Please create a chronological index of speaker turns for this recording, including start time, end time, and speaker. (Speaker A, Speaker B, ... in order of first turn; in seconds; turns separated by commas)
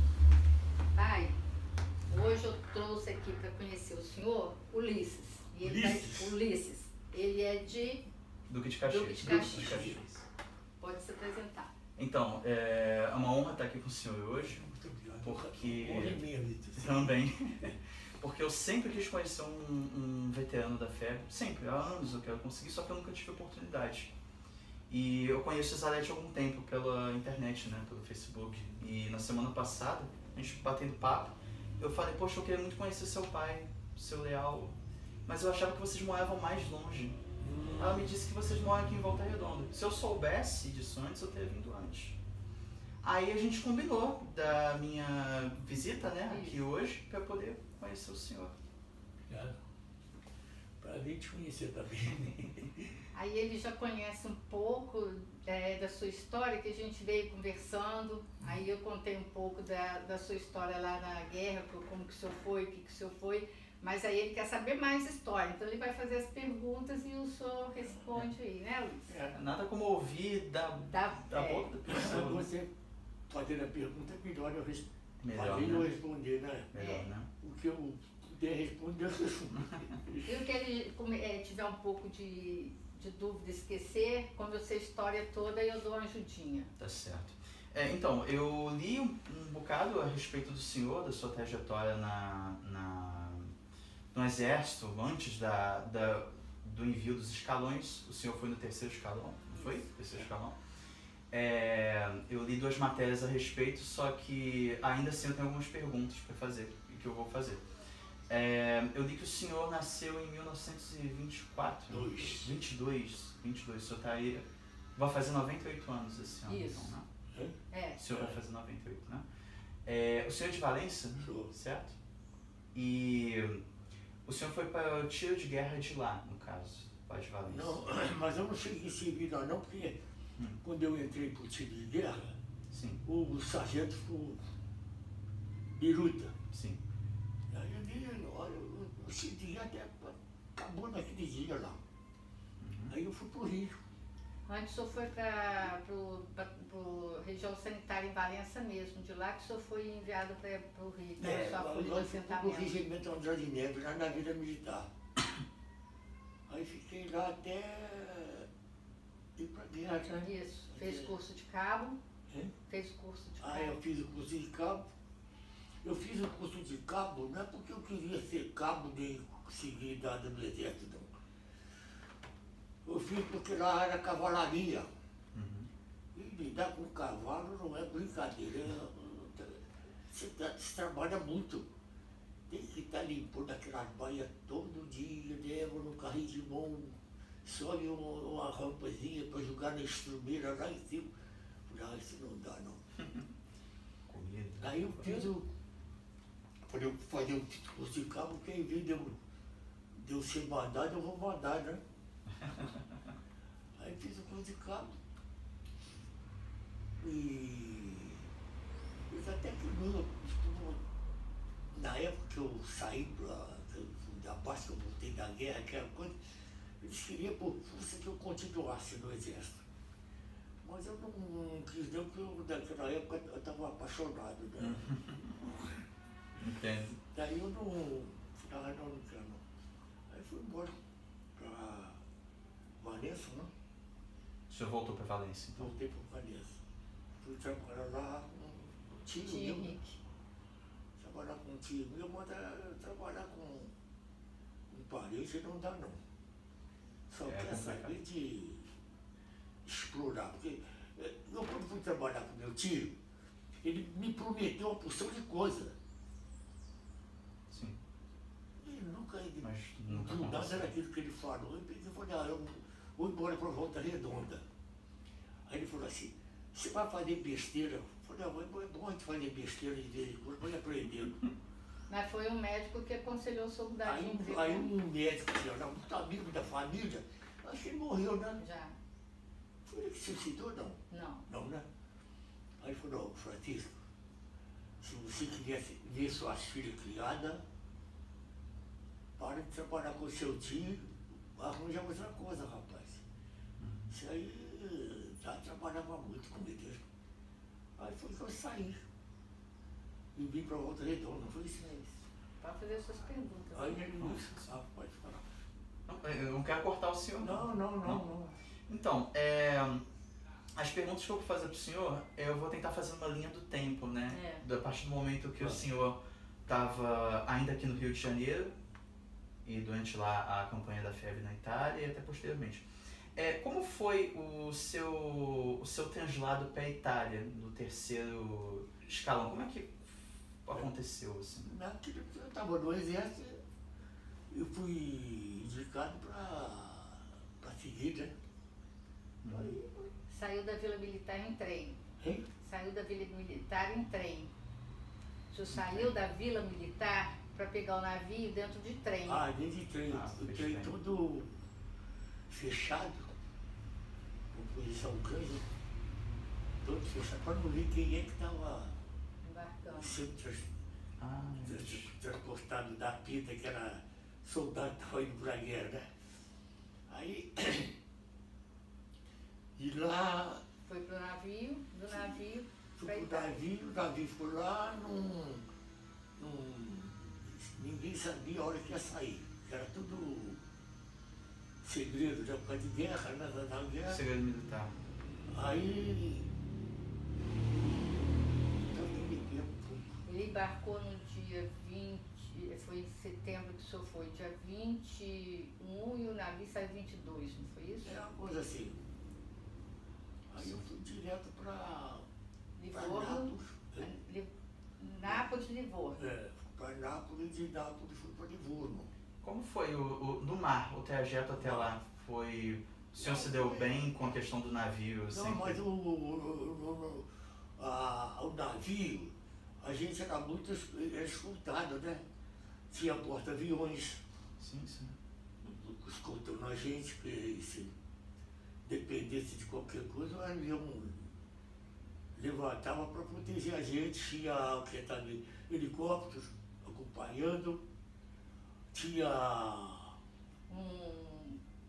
Speaker A: 0.9-1.4, Speaker A: 2.1-8.0, Speaker B: 5.6-6.3, Speaker C: 8.5-10.3, Speaker A: 8.9-10.0, Speaker B: 9.2-9.9, Speaker A: 10.8-11.7, Speaker C: 12.0-24.1, Speaker B: 14.4-17.8, Speaker C: 24.9-37.2, Speaker B: 37.4-38.1, Speaker C: 37.8-42.2, Speaker C: 43.0-48.6, Speaker A: 46.3-46.6, Speaker B: 49.3-49.6, Speaker B: 50.8-53.0, Speaker A: 53.1-69.2, Speaker B: 69.1-69.4, Speaker C: 69.3-72.5, Speaker A: 70.9-71.9, Speaker B: 71.9-72.7, Speaker B: 73.3-76.7, Speaker C: 75.2-75.9, Speaker C: 76.7-77.3, Speaker A: 76.8-77.1, Speaker B: 77.4-80.3, Speaker A: 80.3-86.7, Speaker C: 86.8-93.5, Speaker C: 94.1-100.6, Speaker B: 99.7-100.3, Speaker C: 101.3-107.6, Speaker C: 108.3-114.4, Speaker B: 111.9-112.6, Speaker C: 115.0-117.1, Speaker A: 116.5-116.9, Speaker A: 117.7-118.0, Speaker C: 118.0-119.3, Speaker B: 118.1-118.4, Speaker C: 119.8-122.0, Speaker B: 121.2-121.5, Speaker C: 122.7-123.7, Speaker C: 124.2-127.8, Speaker B: 127.5-130.0, Speaker B: 130.6-132.4, Speaker C: 132.7-133.0, Speaker B: 133.1-134.4, Speaker B: 135.8-136.3, Speaker C: 136.5-136.8, Speaker B: 137.5-141.8, Speaker C: 142.6-143.0, Speaker B: 142.9-143.8, Speaker A: 144.5-152.8, Speaker B: 151.2-154.9, Speaker B: 156.5-158.5, Speaker B: 159.4-161.1, Speaker A: 160.2-162.0, Speaker A: 162.7-163.8, Speaker B: 163.4-164.8, Speaker B: 165.8-171.1, Speaker B: 172.9-174.9, Speaker C: 175.3-175.7, Speaker B: 176.1-181.7, Speaker B: 182.5-191.1, Speaker B: 191.7-192.8, Speaker C: 194.1-195.3, Speaker B: 194.6-195.5, Speaker B: 196.7-199.2, Speaker B: 199.9-201.8, Speaker C: 202.3-203.1, Speaker B: 203.8-204.9, Speaker B: 207.0-208.3, Speaker B: 209.1-210.8, Speaker B: 211.7-216.1, Speaker B: 216.8-219.7, Speaker B: 220.6-224.9, Speaker C: 224.6-225.5, Speaker C: 226.4-227.0, Speaker B: 227.1-229.4, Speaker B: 230.1-230.7, Speaker B: 231.4-232.0, Speaker B: 232.8-233.5, Speaker C: 234.5-235.7, Speaker B: 235.6-236.6, Speaker B: 237.2-239.8, Speaker A: 239.2-240.0, Speaker B: 241.0-243.7, Speaker B: 244.7-246.0, Speaker B: 247.1-248.7, Speaker C: 247.2-247.9, Speaker B: 249.7-253.0, Speaker B: 253.6-255.8, Speaker C: 257.5-257.8, Speaker B: 258.6-264.4, Speaker C: 259.4-260.7, Speaker B: 265.5-271.2, Speaker A: 271.9-274.7, Speaker B: 273.8-278.4, Speaker A: 278.4-278.8, Speaker B: 279.7-281.6, Speaker A: 280.9-281.2, Speaker B: 282.6-283.8, Speaker B: 284.8-287.4, Speaker B: 289.2-293.0, Speaker C: 293.6-293.9, Speaker B: 293.9-296.8, Speaker B: 297.8-298.8, Speaker B: 300.1-301.7, Speaker A: 301.6-304.1, Speaker B: 303.6-305.2, Speaker C: 304.0-304.6, Speaker C: 305.9-308.0, Speaker B: 307.2-308.3, Speaker C: 308.7-309.8, Speaker C: 310.6-318.5, Speaker A: 314.1-314.4, Speaker C: 319.4-331.5, Speaker B: 331.4-333.4, Speaker B: 334.3-338.1, Speaker C: 339.2-339.6, Speaker B: 339.3-339.9, Speaker A: 340.0-341.8, Speaker B: 342.0-342.3, Speaker A: 342.4-344.3, Speaker A: 345.3-349.2, Speaker C: 345.5-345.9, Speaker B: 349.1-351.4, Speaker C: 349.9-350.8, Speaker B: 352.3-353.1, Speaker B: 354.3-355.5, Speaker B: 356.6-358.7, Speaker A: 359.2-360.0, Speaker B: 359.7-360.5, Speaker C: 361.0-361.9, Speaker B: 361.4-365.9, Speaker B: 366.9-367.8, Speaker B: 369.6-370.4, Speaker A: 370.7-373.4, Speaker B: 371.9-372.2, Speaker B: 372.8-375.5, Speaker B: 376.2-380.4, Speaker B: 381.6-384.0, Speaker C: 383.9-384.8, Speaker B: 385.3-386.3, Speaker B: 387.6-390.0, Speaker A: 390.1-398.0, Speaker B: 397.8-398.8, Speaker B: 400.3-402.0, Speaker A: 402.6-406.1, Speaker B: 402.7-404.0, Speaker B: 405.0-405.4, Speaker B: 405.9-408.9, Speaker C: 409.2-415.6, Speaker B: 411.4-411.8, Speaker B: 413.0-414.1, Speaker B: 415.1-422.0, Speaker B: 422.7-424.0, Speaker C: 424.4-425.0, Speaker B: 425.4-427.7, Speaker B: 428.6-431.1, Speaker B: 432.2-437.6, Speaker B: 438.7-439.9, Speaker A: 440.5-441.4